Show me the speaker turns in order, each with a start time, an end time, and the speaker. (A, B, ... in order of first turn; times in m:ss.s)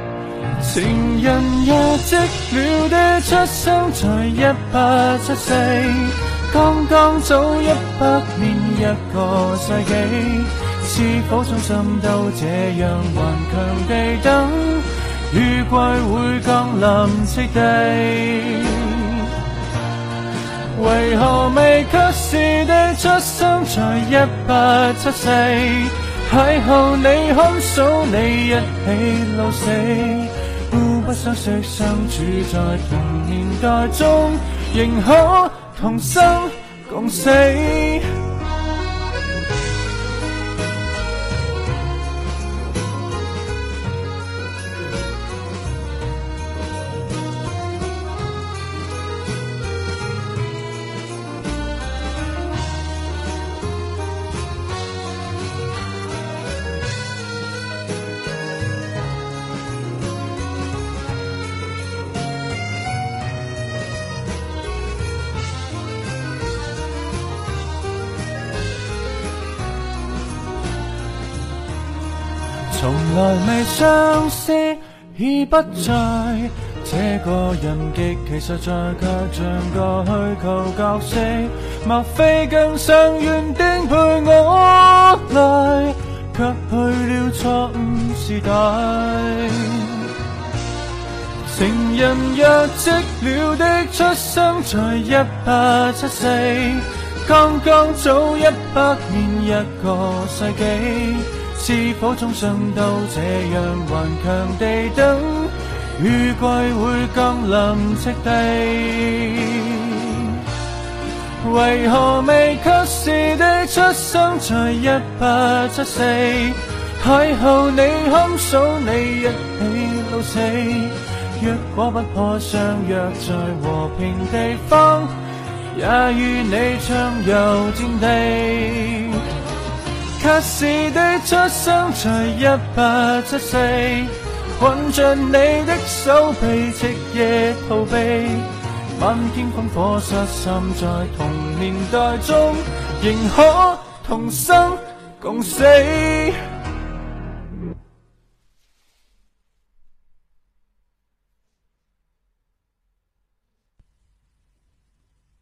0:00.6-0:19.4 A
0:20.7-0:38.2 A
1:12.7-1:30.1 A
1:31.4-1:50.5 A
1:51.4-2:09.4 A
2:10.2-2:26.4 A